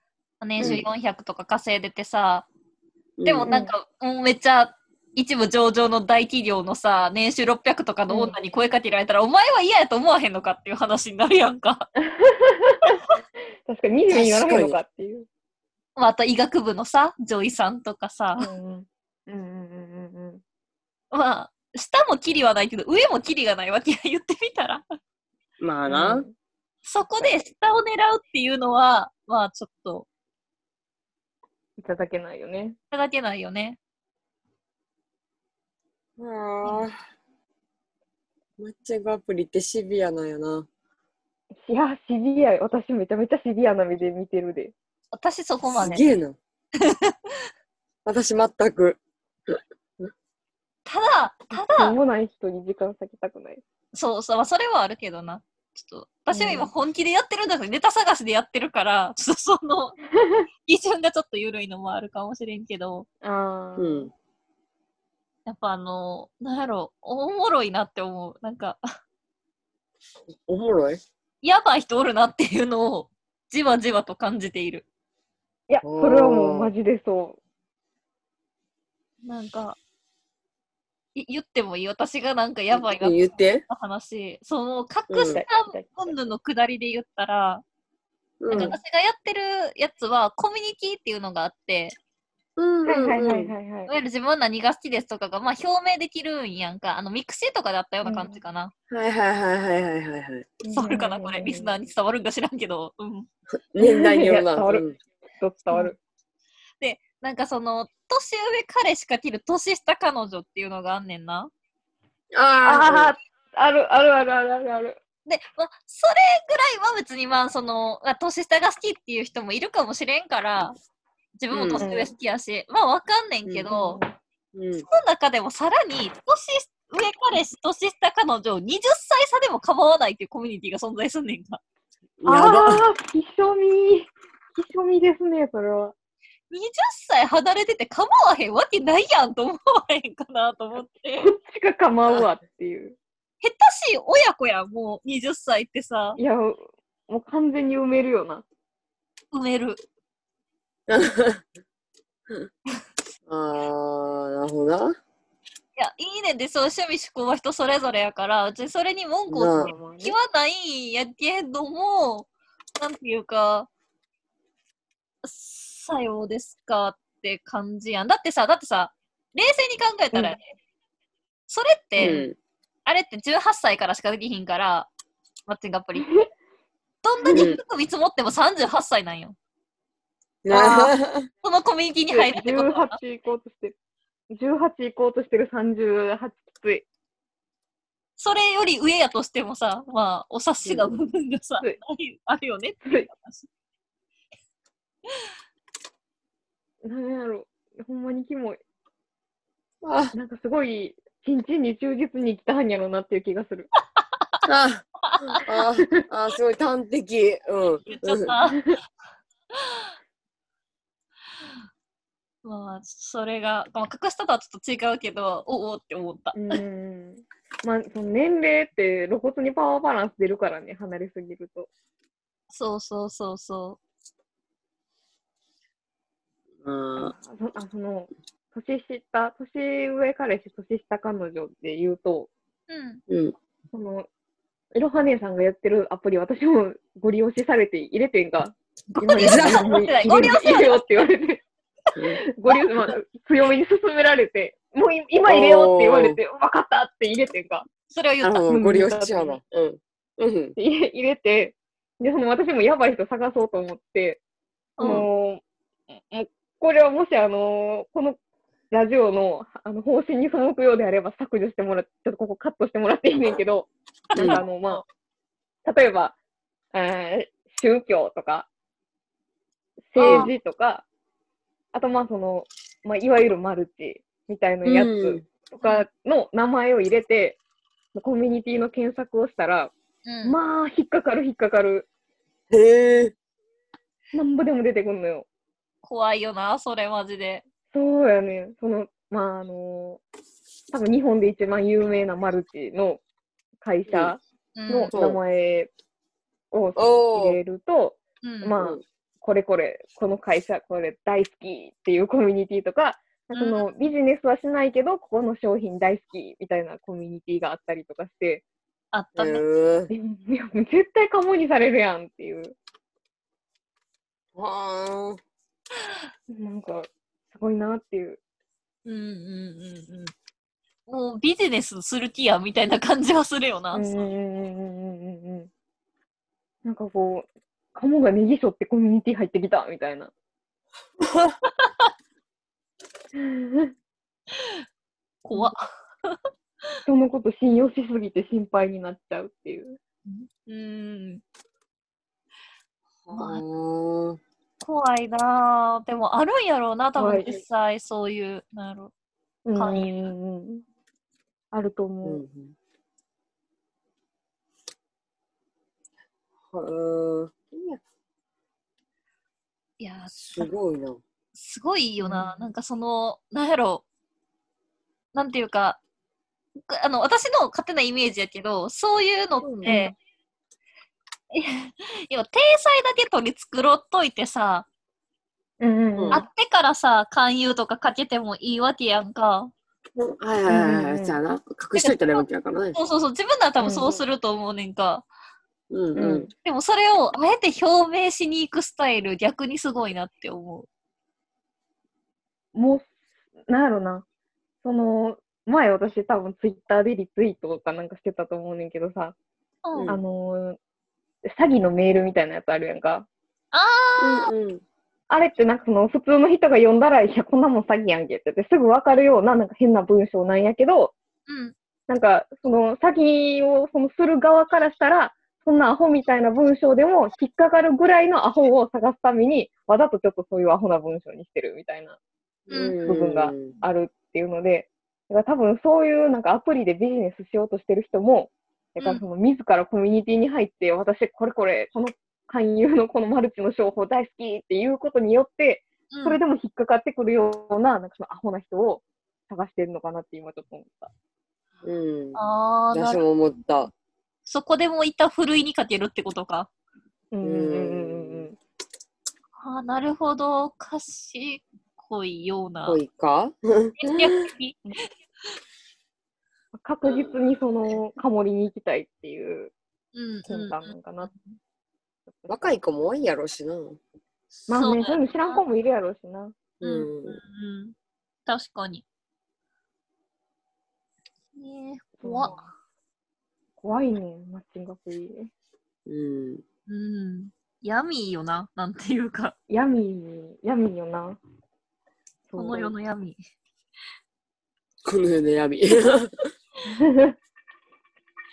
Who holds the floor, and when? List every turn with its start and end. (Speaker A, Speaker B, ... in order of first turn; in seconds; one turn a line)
Speaker A: 0.4-2.5
Speaker B: 0.6-0.8
Speaker B: 3.2-3.5
Speaker A: 3.2-11.9
Speaker C: 3.5-3.7
Speaker C: 8.1-8.3
Speaker C: 12.0-13.0
Speaker C: 13.7-15.3
Speaker B: 14.1-14.8
Speaker A: 15.9-18.5
Speaker C: 18.4-20.4
Speaker A: 21.1-24.8
Speaker B: 25.6-26.2
Speaker C: 25.9-26.3
Speaker A: 26.8-30.1
Speaker C: 31.8-32.8
Speaker A: 32.9-33.8
Speaker B: 36.2-37.0
Speaker B: 38.6-40.7
Speaker C: 41.6-44.7
Speaker A: 45.1-46.0
Speaker B: 45.7-46.4
Speaker A: 46.8-47.1
Speaker B: 48.0-50.0
Speaker A: 50.9-51.9
Speaker C: 51.6-53.6
Speaker A: 53.9-60.0
Speaker C: 56.3-56.7
Speaker C: 60.1-60.5
Speaker A: 60.6-63.1
Speaker C: 63.2-64.1
Speaker B: 63.8-64.1
Speaker A: 65.5-68.8
Speaker B: 70.4-71.0
Speaker A: 71.4-74.8
Speaker C: 75.7-77.4
Speaker B: 75.8-76.7
Speaker A: 79.2-79.8
Speaker A: 81.2-87.6
Speaker B: 82.7-83.6
Speaker B: 85.1-85.4
Speaker C: 85.3-86.2
Speaker B: 88.4-88.7
Speaker A: 88.5-92.0
Speaker B: 92.6-93.5
Speaker C: 92.8-93.9
Speaker A: 93.9-98.7
Speaker C: 98.0-98.4
Speaker B: 98.9-100.5
Speaker C: 100.6-101.7
Speaker A: 100.7-103.3
Speaker B: 103.7-104.9
Speaker C: 103.8-104.8
Speaker C: 105.4-106.0
Speaker A: 106.8-111.5
Speaker B: 112.3-113.1
Speaker C: 112.6-115.0
Speaker A: 115.2-120.8
Speaker A: 121.4-124.0
Speaker B: 121.5-121.8
Speaker C: 121.8-122.1
Speaker C: 123.7-124.2
Speaker B: 124.5-124.8
Speaker A: 124.8-131.6
Speaker B: 132.2-132.8
Speaker C: 132.2-135.9
Speaker A: 136.5-141.3
Speaker C: 141.2-142.9
Speaker A: 143.4-146.2
Speaker C: 146.2-148.4
Speaker A: 149.3-149.8
Speaker B: 150.9-151.4
Speaker B: 153.3-154.9
Speaker A: 155.8-163.7
Speaker B: 159.3-159.7
Speaker C: 159.6-160.2
Speaker A: 165.2-170.4
Speaker A: 171.5-172.2
Speaker B: 172.0-172.3
Speaker A: 172.8-174.9
Speaker A: 175.5-176.1
Speaker C: 175.9-176.2
Speaker A: 177.0-179.3
Speaker B: 177.3-177.6
Speaker B: 180.4-181.3
Speaker A: 180.5-183.0
Speaker C: 182.1-183.7
Speaker C: 184.3-186.8
Speaker A: 188.2-193.5
Speaker B: 190.6-190.9
Speaker C: 196.8-198.6
Speaker B: 199.8-200.1
Speaker C: 200.1-203.7
Speaker B: 204.4-208.3
Speaker A: 205.0-205.4
Speaker A: 207.8-208.7
Speaker A: 209.5-209.9
Speaker A: 212.4-216.6
Speaker C: 216.3-221.7
Speaker A: 222.5-223.8
Speaker B: 226.6-227.1
Speaker C: 227.0-232.3
Speaker A: 232.7-233.0
Speaker B: 233.1-233.3
Speaker C: 233.7-234.1
Speaker C: 234.7-241.4
Speaker A: 238.9-240.8
Speaker B: 239.2-240.2
Speaker C: 242.2-247.7
Speaker B: 245.3-246.2
Speaker A: 247.9-248.5
Speaker B: 248.2-250.5
Speaker C: 248.5-249.4
Speaker C: 250.6-254.2
Speaker A: 254.8-255.1
Speaker C: 254.8-255.4
Speaker C: 255.9-258.2
Speaker C: 258.7-264.8
Speaker A: 264.1-264.4
Speaker B: 264.1-264.4
Speaker C: 265.6-266.1
Speaker C: 266.7-268.5
Speaker C: 269.9-270.8
Speaker A: 270.0-270.3
Speaker C: 271.7-277.4
Speaker B: 274.6-275.2
Speaker C: 277.9-279.7
Speaker A: 280.1-280.4
Speaker C: 280.2-281.9
Speaker B: 282.5-283.1
Speaker C: 284.1-285.2
Speaker A: 285.8-287.4
Speaker C: 287.7-290.0
Speaker C: 290.7-293.0
Speaker C: 293.6-295.7
Speaker B: 293.9-294.1
Speaker A: 294.6-294.9
Speaker B: 294.9-295.2
Speaker C: 296.5-308.4
Speaker B: 296.8-297.4
Speaker A: 298.2-298.5
Speaker A: 303.3-303.7
Speaker A: 308.9-309.4
Speaker B: 309.1-309.9
Speaker C: 309.9-312.5
Speaker B: 314.4-315.2
Speaker C: 316.3-318.2
Speaker A: 318.8-320.1
Speaker A: 320.9-323.9
Speaker C: 323.7-325.5
Speaker C: 326.6-330.1
Speaker B: 331.0-331.4
Speaker A: 331.6-331.9
Speaker C: 333.1-333.7
Speaker A: 334.3-334.6
Speaker A: 335.2-336.2
Speaker C: 336.8-339.8
Speaker A: 340.1-341.2
Speaker B: 343.1-344.2
Speaker A: 343.1-343.4
Speaker A: 344.6-348.9
Speaker C: 346.9-347.4
Speaker C: 349.4-350.6
Speaker A: 349.5-350.0
Speaker C: 351.5-352.2
Speaker B: 352.0-352.5
Speaker B: 356.5-357.8
Speaker A: 359.8-360.5
Speaker B: 360.3-361.0
Speaker A: 361.3-363.8
Speaker A: 365.1-365.8
Speaker A: 366.7-369.9
Speaker B: 369.4-369.7
Speaker C: 369.6-369.9
Speaker A: 371.3-374.7
Speaker C: 375.6-376.2
Speaker B: 375.9-376.2
Speaker A: 376.1-379.5
Speaker B: 380.0-382.8
Speaker C: 380.5-381.2
Speaker A: 381.7-385.1
Speaker C: 383.6-384.0
Speaker B: 385.7-386.3
Speaker C: 385.9-386.3
Speaker A: 386.4-390.7
Speaker C: 392.5-392.9
Speaker C: 393.5-394.0
Speaker C: 394.6-399.1
Speaker A: 399.6-399.9
Speaker B: 399.7-400.0
Speaker C: 399.9-400.6
Speaker C: 401.2-403.1
Speaker A: 403.5-404.3
Speaker B: 404.0-404.6
Speaker C: 405.1-410.9
Speaker A: 411.3-411.5
Speaker C: 411.9-422.0
Speaker A: 422.5-422.8
Speaker B: 422.5-423.5
Speaker C: 422.8-440.9
Speaker A: 435.9-436.2
Speaker B: 441.6-442.2
Speaker A: 442.1-443.0
Speaker B: 442.7-443.7
Speaker A: 444.2-446.5
Speaker C: 447.1-448.4
Speaker B: 447.2-448.3
Speaker A: 449.4-452.8
Speaker B: 452.6-453.9
Speaker A: 453.8-454.6
Speaker C: 456.5-459.5
Speaker A: 459.9-461.2
Speaker C: 460.3-461.1
Speaker B: 462.3-463.8
Speaker A: 464.5-465.4
Speaker C: 464.5-466.4
Speaker B: 466.6-467.2
Speaker A: 466.6-467.7
Speaker A: 468.2-468.8
Speaker A: 471.4-472.4
Speaker C: 472.0-472.5
Speaker C: 473.6-475.3
Speaker B: 475.9-476.4
Speaker A: 476.7-479.3
Speaker C: 479.5-481.2
Speaker C: 482.3-482.7
Speaker A: 482.4-483.2
Speaker B: 484.8-486.1
Speaker C: 486.7-487.1